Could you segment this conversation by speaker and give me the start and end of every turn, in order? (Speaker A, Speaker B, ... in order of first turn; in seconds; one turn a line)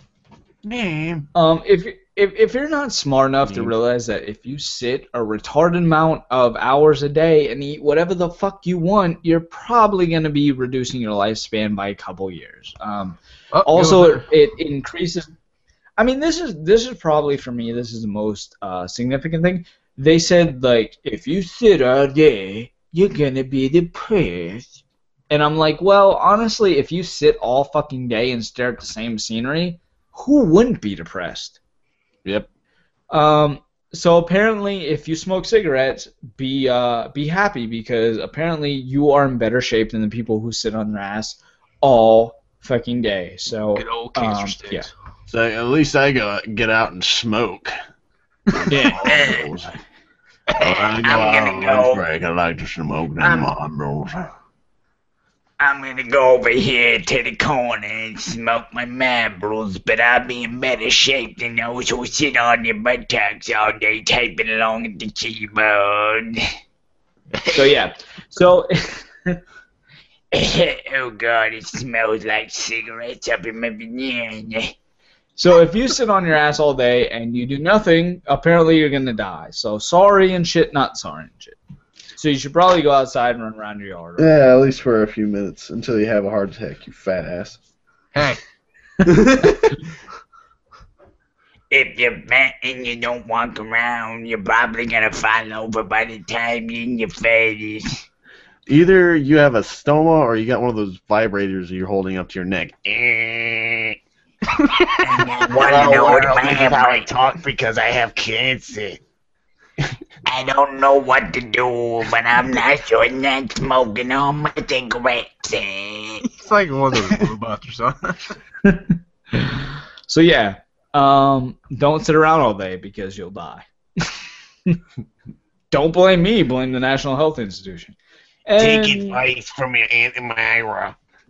Speaker A: 0.6-1.3
Speaker B: 1.3-15.3
Speaker C: 13.5-14.3
Speaker B: 16.0-24.8
Speaker B: 25.3-31.6
Speaker B: 33.1-44.9
Speaker C: 43.8-44.9
Speaker A: 45.3-47.8
Speaker A: 48.5-49.8
Speaker B: 48.7-49.1
Speaker D: 48.9-49.5
Speaker D: 50.5-52.0
Speaker A: 50.6-54.3
Speaker D: 53.2-53.5
Speaker D: 55.6-66.5
Speaker B: 67.5-69.4
Speaker D: 70.3-74.7
Speaker B: 75.4-81.6
Speaker B: 82.2-84.3
Speaker A: 84.2-87.6
Speaker C: 88.1-88.4
Speaker A: 89.0-89.8
Speaker D: 91.7-98.0
Speaker A: 98.7-104.0
Speaker C: 104.6-105.0
Speaker D: 105.0-109.0
Speaker A: 105.5-107.2
Speaker D: 110.2-116.2
Speaker C: 116.3-118.3
Speaker B: 118.7-124.8
Speaker B: 125.7-129.2
Speaker D: 128.6-130.4
Speaker A: 128.8-130.9